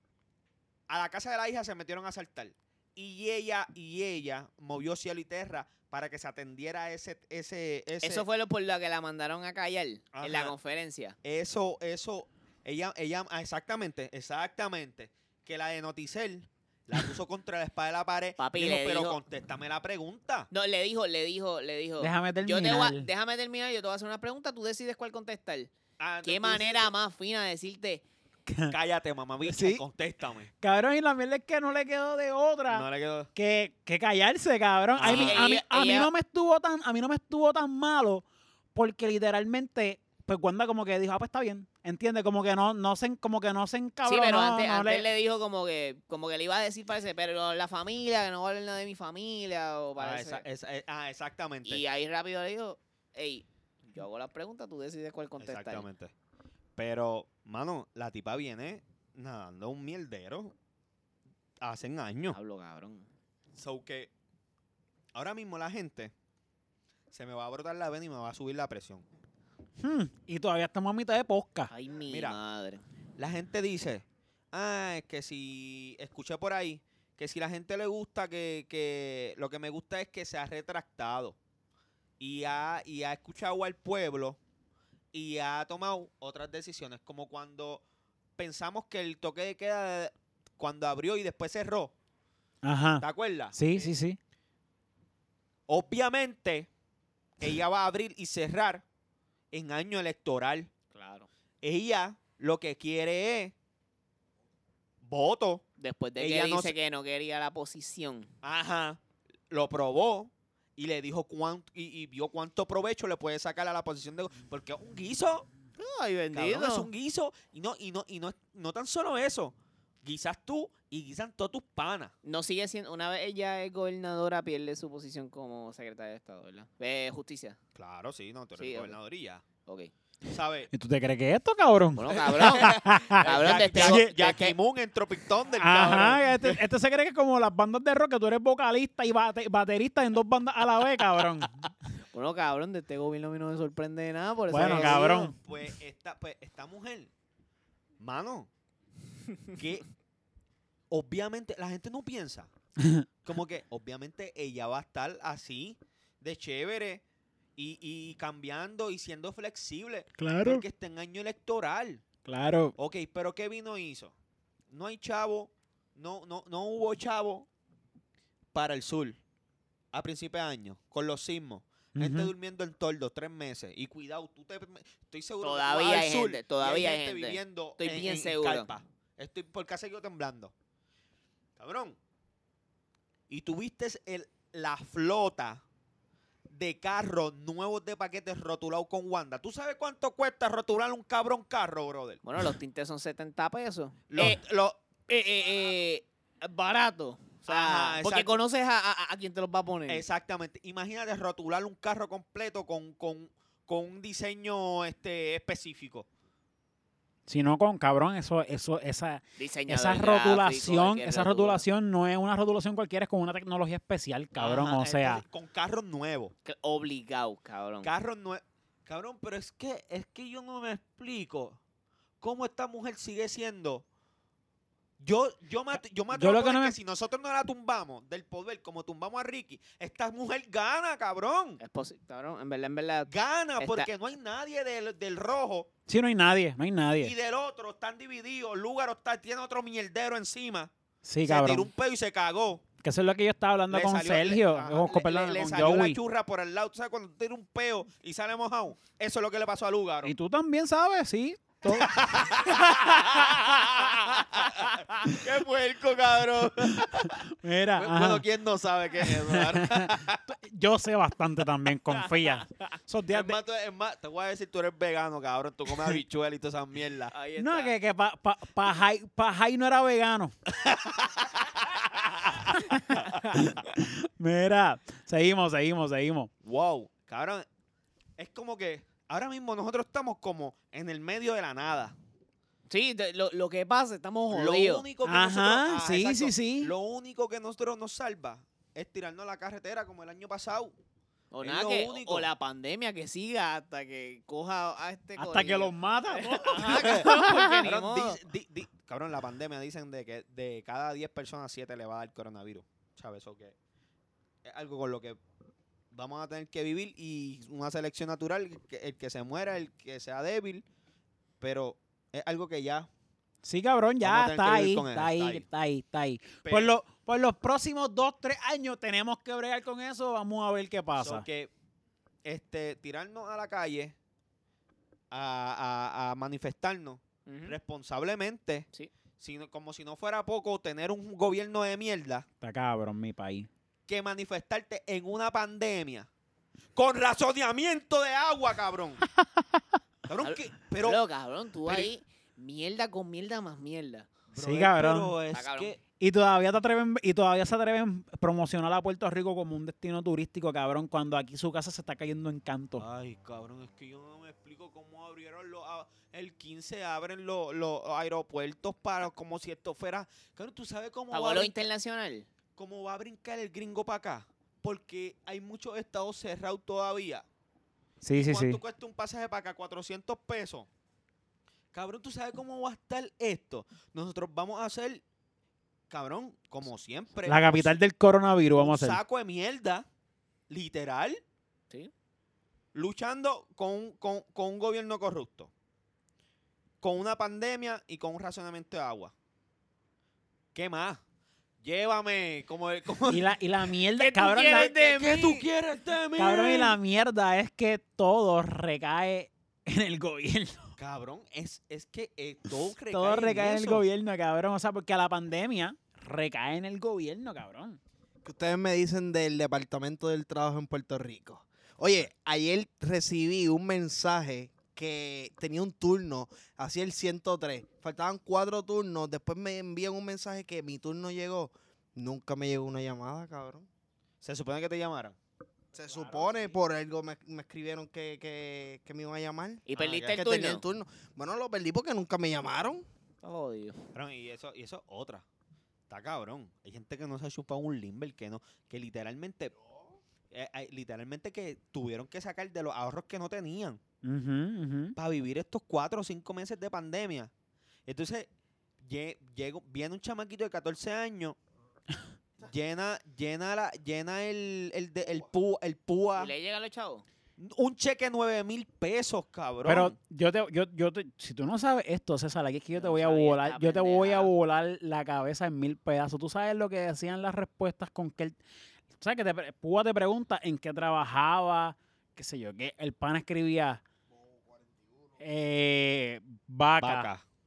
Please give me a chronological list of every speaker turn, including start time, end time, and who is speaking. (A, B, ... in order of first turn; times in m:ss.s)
0:00.9-0:08.2 A
0:08.0-0:11.2 B
0:10.1-0:10.5 A
0:11.2-0:20.5 A
0:18.4-0:19.2 B
0:20.5-0:25.7 B
0:22.0-0:23.1 C
0:26.0-0:26.9 A
0:26.2-0:28.0 B
0:28.5-0:28.8 C
0:28.7-0:30.5 A
0:29.4-0:29.8 C
0:30.6-0:38.2 C
0:32.7-0:33.3 A
0:35.0-0:35.5 A
0:35.0-0:36.1 B
0:38.7-0:45.0 C
0:44.0-0:50.4 B
0:50.0-0:51.8 A
0:51.6-0:55.9 B
0:55.4-0:56.1 A
0:56.8-1:00.5 A
1:01.6-1:02.4 A
1:02.3-1:03.1 B
1:03.5-1:04.1 A
1:05.1-1:06.1 A
1:07.1-1:09.0 A
1:09.8-1:11.7 C
1:11.7-1:12.8 B
1:12.1-1:12.4 A
1:13.2-1:21.4 A
1:22.2-1:24.4 A
1:25.1-1:27.8 A
1:28.4-1:31.9 A
1:32.6-1:34.2 C
1:33.0-1:33.6 A
1:35.7-1:36.7 A
1:37.4-1:38.8 A
1:39.5-1:40.7 A
1:40.9-1:41.3 B
1:41.6-1:43.5 A
1:45.0-1:45.6 A
1:45.8-1:48.3 B
1:46.2-1:46.8 A
1:48.4-1:55.5 A
1:55.8-1:56.9 B
1:56.3-2:02.1 A
2:02.2-2:07.6 B
2:07.8-2:09.4 A
2:08.6-2:08.9 B
2:09.6-2:09.9 B
2:10.2-2:10.7 A
2:10.7-2:14.1 C
2:12.0-2:14.6 B
2:13.1-2:16.6 A
2:15.6-2:21.7 C
2:22.1-2:25.3 B
2:24.5-2:25.3 C
2:24.6-2:27.1 A
2:28.0-2:28.5 A
2:29.5-2:29.8 A
2:30.9-2:32.5 A
2:32.8-2:33.0 C
2:33.2-2:37.0 A
2:37.6-2:42.0 A
2:40.2-2:40.6 C
2:42.2-2:42.7 C
2:42.8-2:44.1 A
2:44.7-2:47.5 A
2:48.5-2:49.2 A
2:49.9-3:00.5 A
2:52.0-2:52.3 C
2:55.4-2:58.7 B
3:01.6-3:02.0 A
3:03.3-3:05.6 A
3:06.5-3:12.2 A
3:12.2-3:14.4 B
3:14.1-3:14.8 A
3:15.1-3:20.0 B
3:17.4-3:18.4 A
3:19.9-3:26.1 A
3:27.3-3:35.2 C
3:29.4-3:31.6 B
3:34.4-3:36.3 A
3:36.4-3:37.9 B
3:37.8-3:41.6 A
3:42.2-3:43.8 A
3:45.0-3:51.6 A
3:45.7-3:46.8 C
3:51.6-3:53.9 B
3:53.1-3:55.7 A
3:55.9-3:57.1 C
3:57.0-4:00.7 A
4:01.0-4:01.7 C
4:01.2-4:02.6 A
4:02.8-4:06.0 C
4:03.7-4:10.1 A
4:10.0-4:13.5 C
4:11.6-4:17.2 A
4:16.6-4:18.2 C
4:17.8-4:20.2 A
4:19.0-4:23.4 C
4:23.1-4:27.1 A
4:27.1-4:27.7 B
4:27.4-4:30.3 C
4:30.5-4:33.6 A
4:32.5-4:36.3 C
4:36.4-4:37.4 A
4:38.2-4:42.0 A
4:42.7-4:44.9 B
4:44.3-4:50.7 A
4:45.0-4:46.7 C
4:51.3-4:58.2 B
4:51.4-4:52.3 A
4:55.2-4:57.6 C
4:56.6-5:03.5 A
5:04.4-5:05.2 A
5:05.9-5:10.6 A
5:11.4-5:12.9 A
5:13.4-5:21.2 C
5:14.0-5:15.4 A
5:16.4-5:16.7 A
5:21.0-5:21.5 A
5:22.2-5:23.9 A
5:25.1-5:32.2 A
5:27.2-5:27.6 B
5:32.4-5:33.5 C
5:33.9-5:36.1 A
5:36.8-5:39.0 A
5:40.1-5:41.0 A
5:40.2-5:44.1 B
5:41.6-5:41.9 A
5:44.3-5:45.8 A
5:44.4-5:45.2 C
5:45.3-5:45.7 B
5:46.0-5:52.8 C
5:52.8-6:01.6 A
6:01.1-6:02.3 B
6:02.6-6:07.2 A
6:08.0-6:08.6 C
6:08.1-6:10.7 A
6:11.7-6:15.0 A
6:15.9-6:17.8 A
6:17.2-6:19.0 C
6:18.6-6:19.8 A
6:20.5-6:21.2 A
6:22.7-6:25.5 A
6:26.8-6:29.1 A
6:30.5-6:31.0 A
6:31.6-6:33.3 A
6:33.1-6:34.8 C
6:33.9-6:35.4 B
6:34.5-6:36.8 A
6:36.2-6:40.7 C
6:40.8-6:43.8 A
6:42.9-6:47.8 C
6:48.2-7:03.7 D
6:51.8-6:52.1 A
7:04.2-7:05.2 A
7:05.7-7:12.8 D
7:05.8-7:06.6 C
7:09.6-7:10.6 B
7:09.7-7:10.2 A
7:13.2-7:13.8 B
7:13.9-7:15.2 A
7:15.9-7:19.5 A
7:20.3-7:23.8 A
7:24.0-7:25.0 C
7:25.0-7:27.3 A
7:27.9-7:28.3 A
7:28.8-7:31.4 A
7:32.4-7:36.3 A
7:36.2-7:37.0 B
7:37.4-7:39.9 A
7:39.6-7:48.4 C
7:42.7-7:44.3 B
7:49.0-7:53.8 C
7:55.2-7:57.1 C
7:56.8-7:57.2 A